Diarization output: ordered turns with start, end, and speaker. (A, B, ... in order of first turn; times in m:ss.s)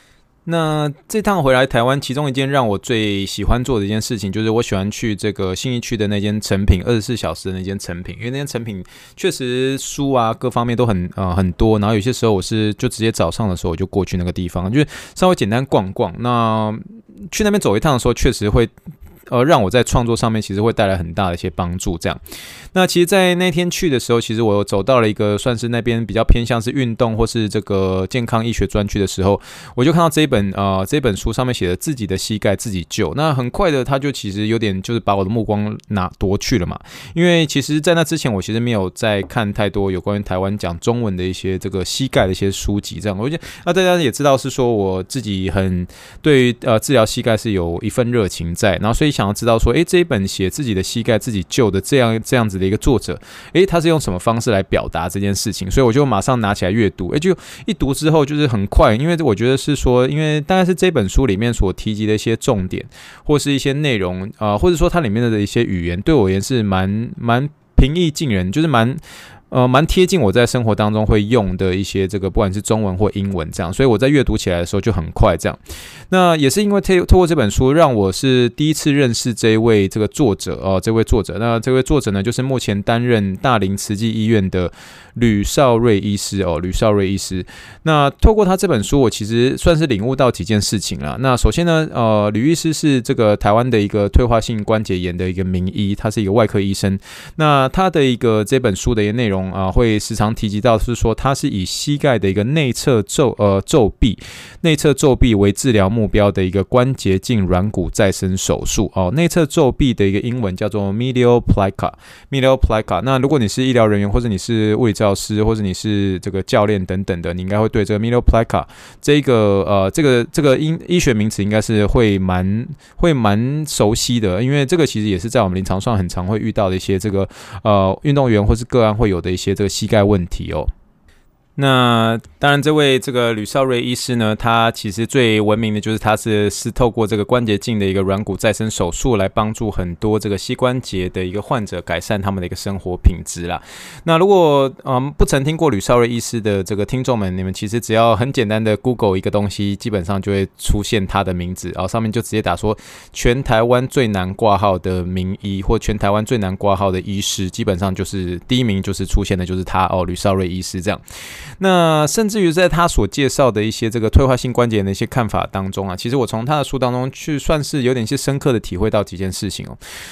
0:00.5-0:18.7 A
0:19.3-0:22.2 A
0:22.7-1:15.6 A
1:16.1-2:10.7 A
2:11.6-2:41.0 A
2:41.6-2:49.8 A